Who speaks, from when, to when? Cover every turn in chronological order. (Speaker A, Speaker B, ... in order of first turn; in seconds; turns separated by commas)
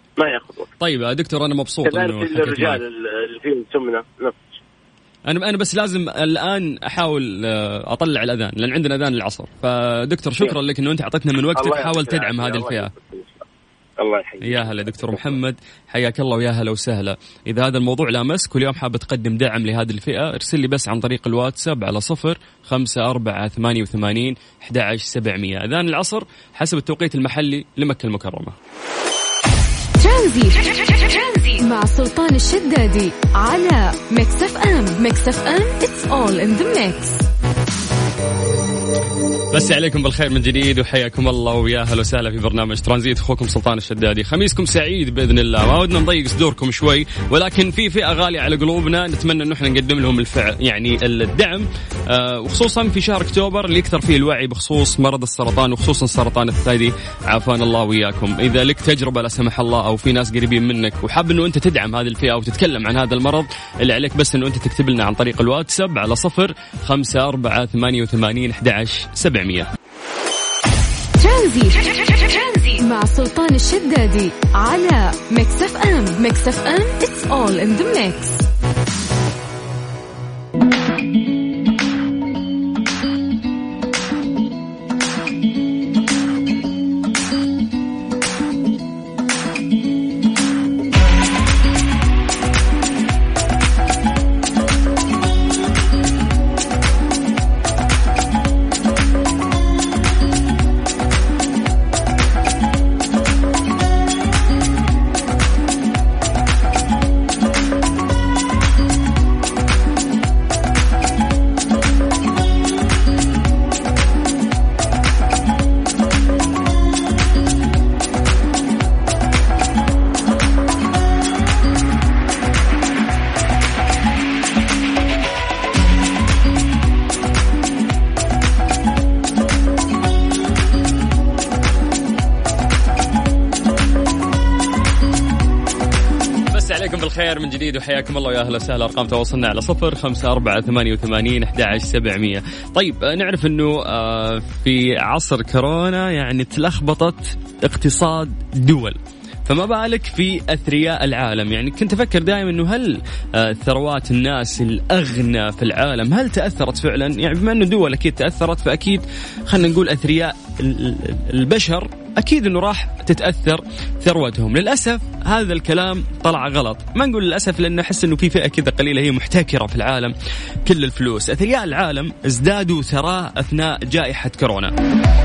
Speaker A: 0.2-0.7, Speaker B: 0.8-2.8, Speaker A: 1.9-4.6, Speaker B: 5.3-12.9, Speaker A: 11.6-13.4, Speaker A: 14.0-15.4, Speaker B: 14.4-28.6, Speaker C: 30.0-37.2, Speaker B: 39.5-69.7, Speaker C: 71.2-78.5, Speaker B: 136.5-170.1, Speaker B: 170.7-174.7